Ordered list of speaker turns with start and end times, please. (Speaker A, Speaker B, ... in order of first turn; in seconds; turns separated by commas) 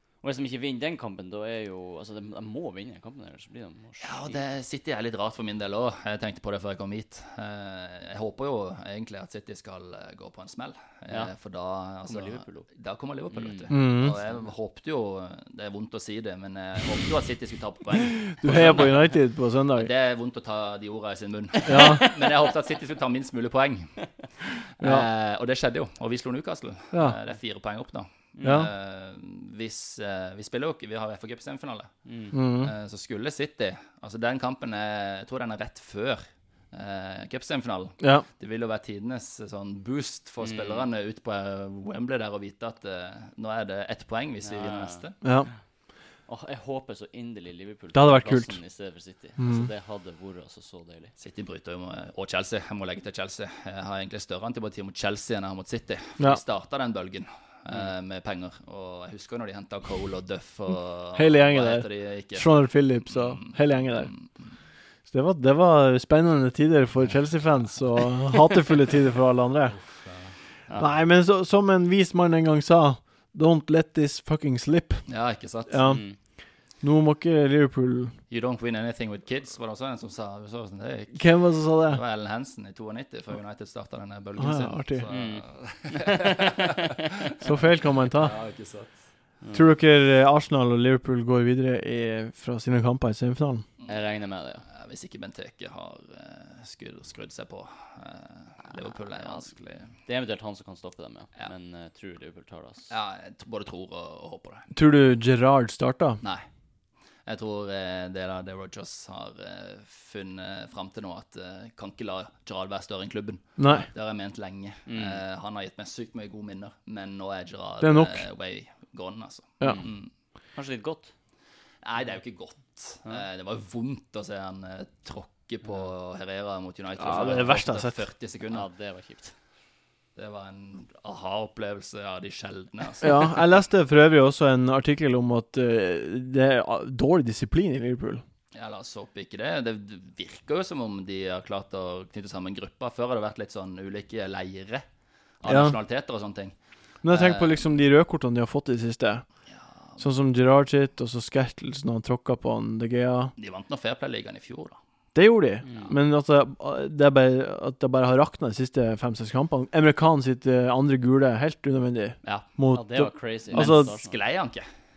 Speaker A: 0.2-4.4, Speaker B: 4.0-19.1, Speaker A: 12.0-12.7, Speaker A: 13.3-13.7, Speaker C: 13.7-14.1, Speaker C: 18.4-19.9, Speaker B: 19.7-24.0, Speaker C: 21.6-22.1, Speaker A: 21.7-22.5, Speaker B: 24.6-31.9, Speaker C: 24.8-25.1, Speaker A: 28.4-28.6, Speaker C: 28.4-28.7, Speaker A: 32.0-32.3, Speaker C: 32.3-32.7, Speaker B: 32.6-45.2, Speaker C: 38.0-38.2, Speaker A: 40.4-40.9, Speaker A: 44.4-45.0, Speaker C: 45.2-45.5, Speaker A: 46.3-51.1, Speaker C: 47.9-48.6, Speaker C: 49.4-49.7, Speaker B: 51.2-64.3, Speaker C: 61.1-64.1, Speaker C: 65.1-69.8, Speaker B: 69.7-70.3, Speaker C: 70.8-75.1, Speaker B: 75.1-75.8, Speaker C: 75.7-76.0, Speaker A: 75.8-76.2, Speaker C: 76.8-78.1, Speaker B: 78.3-87.3, Speaker C: 81.1-82.0, Speaker C: 84.4-85.1, Speaker A: 85.1-87.1, Speaker C: 87.4-88.3, Speaker B: 88.1-89.0, Speaker A: 89.4-89.7, Speaker C: 89.5-93.6, Speaker B: 93.8-94.0, Speaker A: 93.9-94.6, Speaker B: 94.7-99.9, Speaker A: 100.0-102.9, Speaker B: 102.9-104.7, Speaker C: 104.7-106.2, Speaker B: 107.2-120.1, Speaker C: 113.6-113.9, Speaker A: 114.9-115.2, Speaker C: 117.8-118.2, Speaker A: 119.6-120.0, Speaker A: 120.5-121.1, Speaker B: 121.8-128.7, Speaker C: 127.0-128.0, Speaker A: 128.5-129.3, Speaker B: 130.2-133.4, Speaker C: 133.0-138.2, Speaker B: 138.5-144.8, Speaker B: 145.4-147.6, Speaker C: 145.4-145.8, Speaker C: 147.0-149.2, Speaker B: 149.5-150.0, Speaker C: 150.0-153.3, Speaker B: 153.4-154.8, Speaker C: 155.1-163.9, Speaker A: 155.6-155.9, Speaker A: 162.7-164.2, Speaker B: 163.5-164.7